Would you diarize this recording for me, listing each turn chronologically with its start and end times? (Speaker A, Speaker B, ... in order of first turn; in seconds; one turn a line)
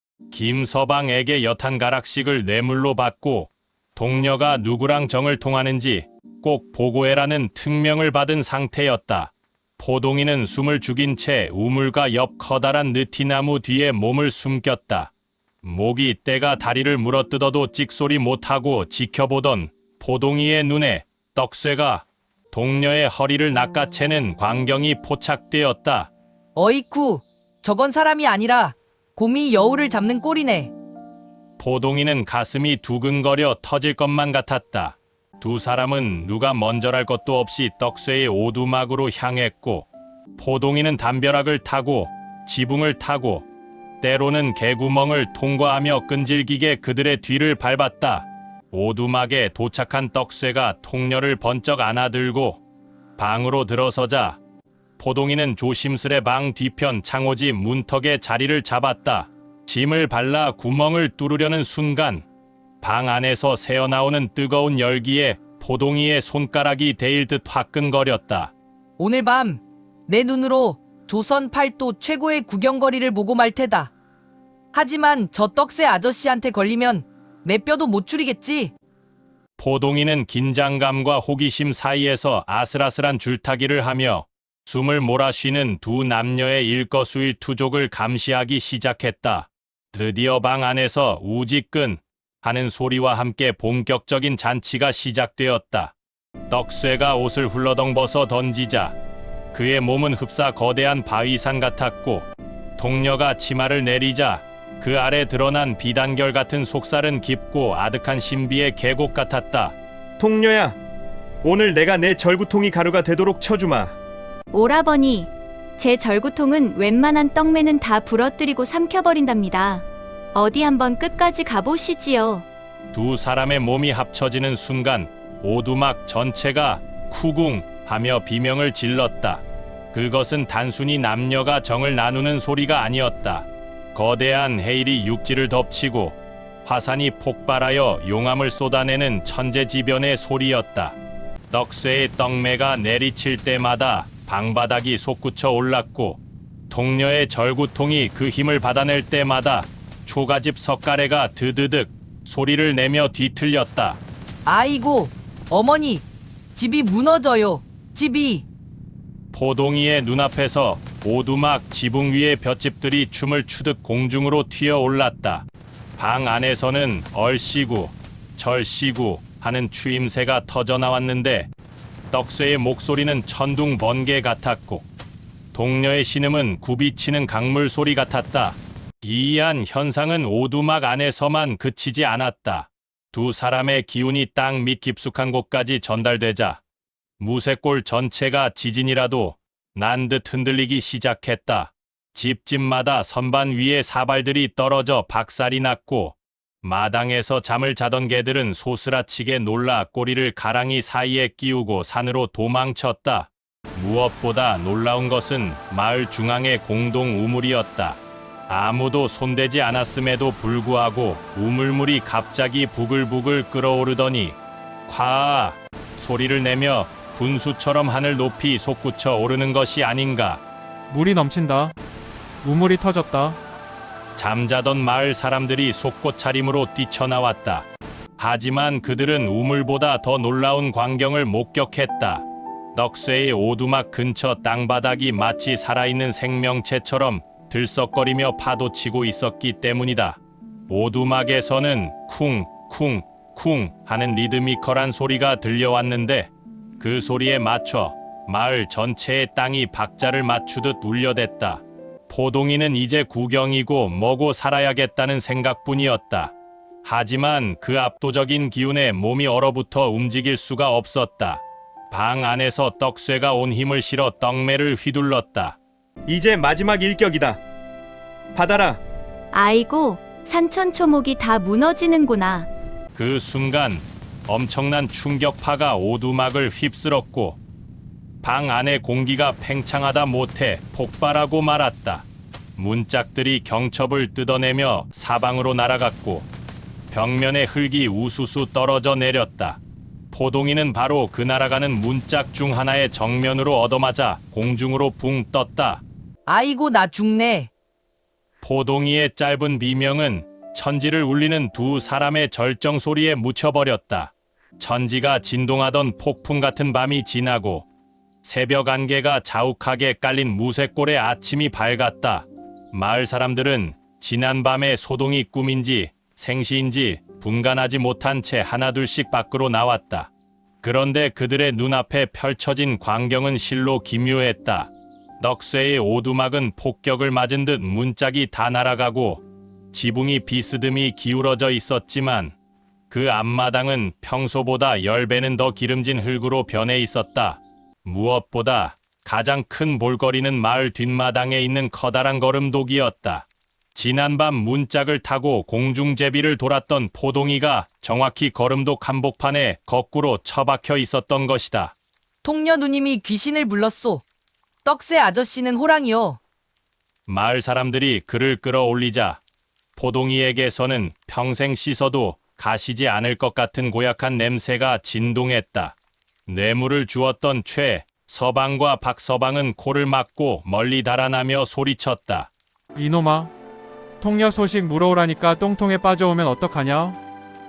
Speaker A: 0.3-15.1
Speaker A: 15.6-26.1
Speaker B: 26.6-30.7
Speaker A: 31.6-43.5
Speaker A: 44.0-52.6
Speaker A: 53.2-54.4
Speaker A: 55.0-62.2
Speaker A: 62.8-68.5
Speaker B: 69.0-73.9
Speaker B: 74.7-78.7
Speaker A: 79.6-95.9
Speaker A: 96.5-98.9
Speaker A: 99.5-102.3
Speaker A: 102.8-109.8
Speaker C: 110.2-110.8
Speaker C: 111.4-114.0
Speaker D: 114.5-122.5
Speaker A: 122.9-140.9
Speaker A: 141.5-154.0
Speaker B: 154.4-158.4
Speaker A: 159.3-165.4
Speaker A: 166.0-171.5
Speaker A: 172.1-174.9
Speaker A: 175.5-186.6
Speaker A: 187.2-214.3
Speaker A: 214.9-220.4
Speaker E: 220.9-221.8
Speaker E: 222.4-223.4
Speaker A: 224.2-227.7
Speaker A: 228.2-256.3
Speaker A: 256.8-265.6
Speaker C: 266.1-267.4
Speaker C: 268.3-268.8
Speaker D: 269.3-272.5
Speaker A: 272.9-277.4
Speaker A: 278.2-282.1
Speaker A: 282.6-286.3
Speaker A: 286.9-289.6
Speaker A: 290.1-295.8
Speaker B: 296.3-297.5
Speaker A: 298.4-307.6
Speaker A: 308.2-320.1
Speaker A: 320.6-332.3
Speaker A: 332.9-351.7
Speaker B: 352.2-354.0
Speaker B: 354.6-356.2
Speaker A: 357.1-359.2
Speaker A: 359.8-365.8
Speaker A: 366.3-372.3
Speaker E: 372.8-373.3
Speaker E: 374.0-377.0